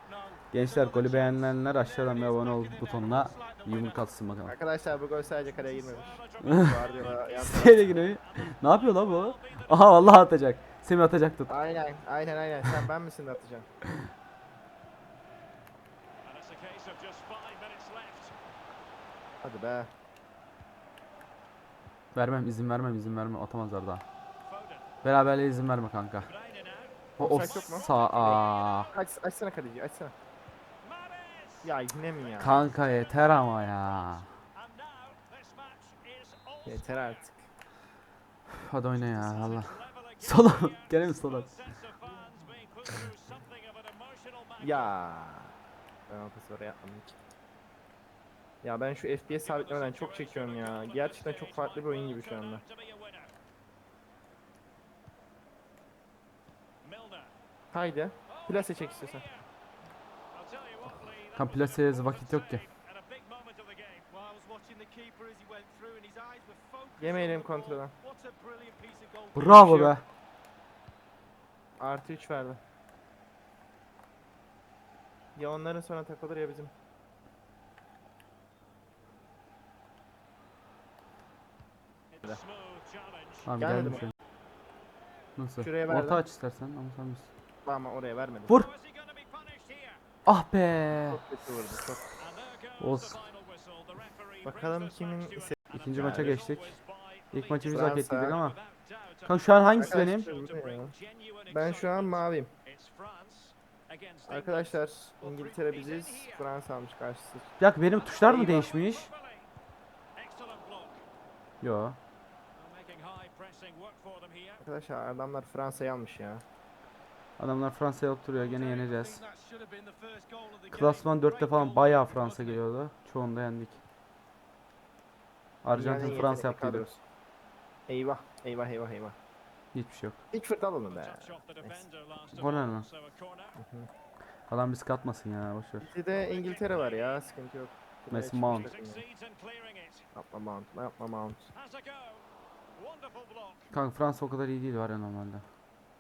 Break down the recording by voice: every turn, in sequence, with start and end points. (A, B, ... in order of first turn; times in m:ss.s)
0:00.5-0:04.6 A
0:04.5-0:08.0 B
0:06.4-0:06.7 A
0:07.4-0:11.6 A
0:11.5-0:13.7 B
0:16.4-0:18.3 C
0:19.4-0:19.9 B
0:22.2-0:24.0 A
0:25.0-0:26.3 A
0:26.4-0:26.9 C
0:27.2-0:28.9 A
0:27.2-0:30.1 B
0:31.6-0:32.6 B
0:32.4-0:34.3 A
0:34.7-0:36.6 C
0:36.7-0:37.4 B
0:38.5-0:41.6 A
0:41.6-0:43.5 C
0:44.1-0:44.5 C
0:44.6-0:45.5 B
0:46.1-0:47.2 B
0:48.6-0:52.6 B
0:57.7-0:59.2 B
1:00.5-1:01.4 C
1:01.4-1:02.6 A
1:03.0-1:04.0 C
1:04.1-1:07.4 D
1:07.0-1:07.9 B
1:08.1-1:09.7 D
1:09.4-1:10.0 A
1:11.8-1:12.6 B
1:15.4-1:16.7 B
1:23.5-1:24.1 A
1:23.6-1:24.0 B
1:25.4-1:27.3 A
1:25.6-1:26.2 B
1:27.6-1:28.5 B
1:29.6-1:29.9 C
1:30.3-1:31.2 A
1:31.0-1:32.1 B
1:32.8-1:33.2 A
1:34.4-1:36.4 B
1:35.7-1:38.6 A
1:37.7-1:38.4 B
1:39.2-1:40.3 A
1:39.7-1:40.9 B
1:41.5-1:42.5 B
1:42.8-1:44.2 C
1:44.3-1:47.5 B
1:47.6-1:49.1 A
1:48.2-1:48.7 B
1:48.8-1:49.1 C
1:50.2-1:51.0 C
1:51.6-1:52.0 A
1:52.7-1:54.6 C
1:54.6-1:56.4 B
1:57.4-1:59.2 A
1:59.2-2:00.5 D
2:00.7-2:03.8 A
2:05.6-2:06.9 A
2:05.7-2:07.0 B
2:07.9-2:09.2 B
2:09.7-2:10.2 A
2:10.3-2:11.8 B
2:12.1-2:12.9 C
2:12.3-2:12.9 A
2:13.6-2:13.9 B
2:14.5-2:15.9 A
2:15.8-2:19.0 B
2:18.1-2:18.7 A
2:20.2-2:21.5 B
2:23.7-2:25.4 A